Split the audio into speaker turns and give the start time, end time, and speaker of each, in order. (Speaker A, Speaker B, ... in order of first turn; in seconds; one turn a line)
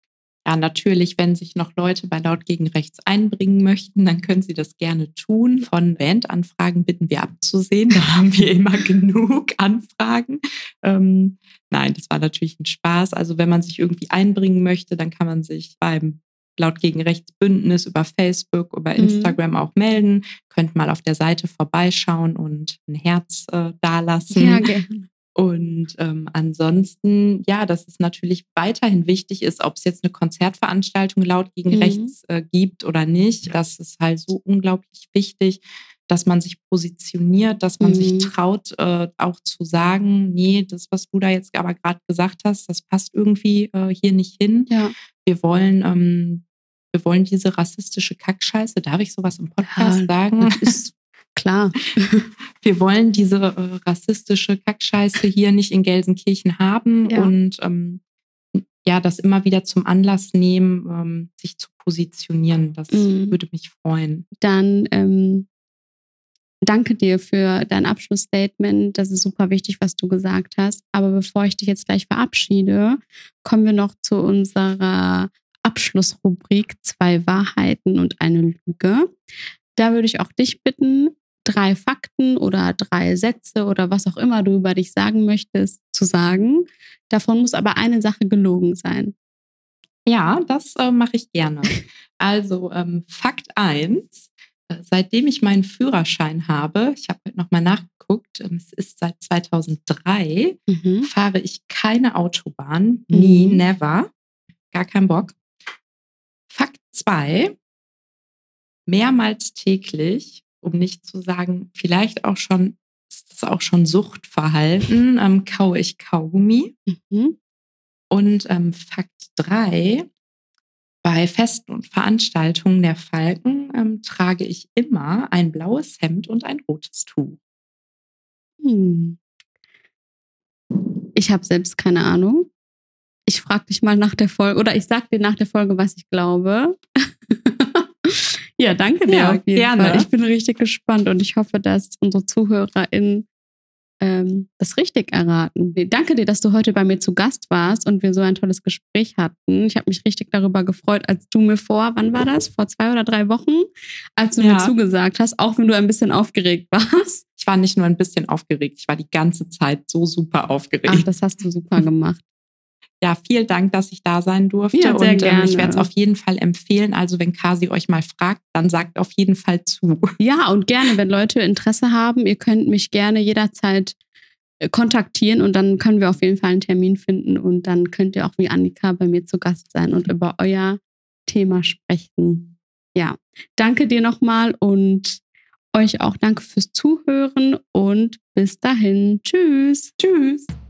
Speaker A: 0.4-24.6
Speaker B: 19.0-19.4
Speaker B: 24.3-25.1
Speaker A: 25.4-44.7
Speaker B: 31.7-32.1
Speaker B: 37.8-38.3
Speaker A: 45.2-50.7
Speaker B: 49.6-52.2
Speaker A: 52.6-58.0
Speaker B: 57.1-57.3
Speaker A: 58.5-64.2
Speaker B: 62.9-63.4
Speaker B: 64.4-65.5
Speaker B: 66.7-79.1
Speaker B: 79.8-89.1
Speaker A: 90.1-104.1
Speaker B: 100.7-101.1
Speaker B: 103.1-103.6
Speaker A: 104.7-105.4
Speaker A: 106.5-107.5
Speaker A: 108.9-116.7
Speaker B: 116.9-117.4
Speaker A: 118.1-120.1
Speaker A: 121.0-127.4
Speaker B: 128.6-129.2
Speaker B: 131.1-132.5
Speaker B: 133.3-143.2
Speaker A: 139.1-140.1
Speaker B: 144.0-157.2
Speaker A: 154.4-154.7
Speaker A: 157.4-161.1
Speaker B: 160.9-162.2
Speaker A: 163.0-170.1
Speaker B: 164.7-165.9
Speaker B: 170.2-174.0
Speaker B: 174.6-185.2
Speaker B: 185.7-189.9
Speaker A: 190.0-190.5